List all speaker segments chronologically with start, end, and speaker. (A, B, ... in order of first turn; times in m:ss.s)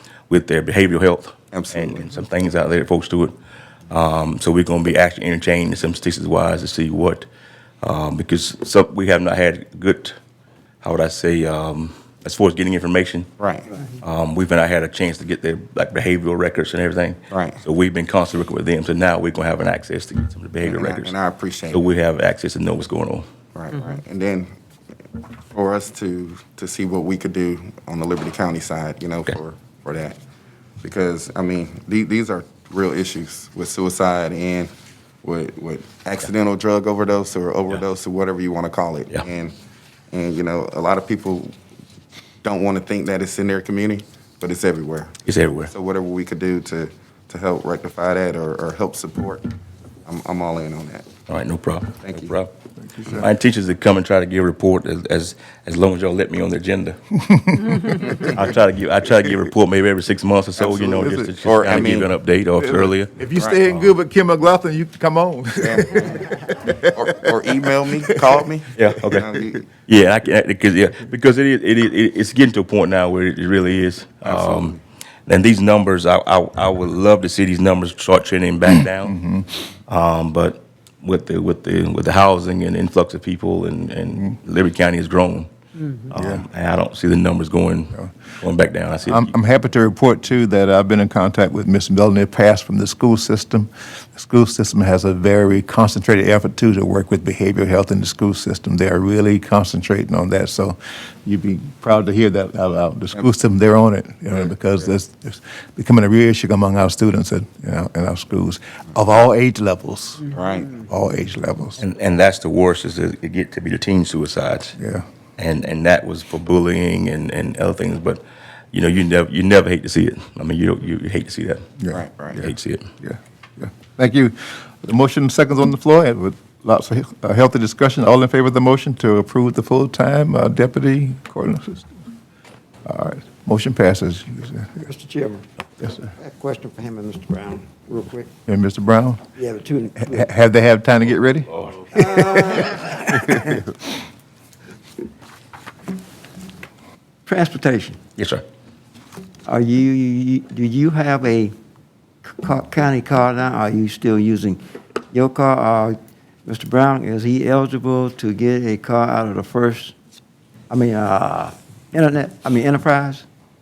0:00.3-0:03.3 A
0:01.5-0:02.1 B
0:03.9-0:07.3 A
0:07.8-0:10.1 A
0:10.8-0:13.3 A
0:13.4-0:13.7 B
0:14.0-0:21.1 A
0:17.3-0:17.6 B
0:20.6-0:21.8 B
0:21.7-0:23.2 A
0:23.5-0:24.5 B
0:25.5-0:30.2 B
0:30.8-0:34.7 B
0:35.2-0:39.5 B
0:40.1-0:41.5 B
0:42.4-0:45.1 B
0:45.2-0:45.7 A
0:45.7-0:49.4 B
0:50.0-0:51.1 B
0:51.3-0:52.5 A
0:52.0-0:52.3 B
0:52.8-0:53.3 C
0:53.2-0:57.0 A
0:57.2-0:58.2 C
0:57.7-1:03.1 A
1:00.6-1:02.1 B
1:01.0-1:01.3 C
1:02.6-1:07.5 C
1:03.3-1:03.6 B
1:03.7-1:03.9 A
1:05.6-1:06.4 B
1:06.9-1:09.6 B
1:08.1-1:08.4 C
1:08.7-1:19.1 A
1:14.2-1:14.8 B
1:18.7-1:19.5 C
1:19.9-1:25.5 A
1:26.0-1:29.3 A
1:26.1-1:26.4 C
1:29.0-1:50.3 C
1:50.3-1:50.8 B
1:50.8-1:51.8 C
1:51.8-1:54.8 A
1:54.8-1:55.0 C
1:55.4-2:01.6 A
2:01.8-2:11.9 C
2:01.9-2:02.5 B
2:02.4-2:02.9 A
2:12.8-2:14.9 C
2:14.8-2:18.3 D
2:18.5-2:19.2 C
2:19.3-2:20.3 D
2:20.0-2:22.3 C
2:21.9-2:23.6 D
2:23.3-2:23.5 C
2:27.2-2:28.0 D
2:28.2-2:28.4 A
2:29.4-2:31.5 D
2:32.2-2:39.9 D
2:40.7-2:43.3 D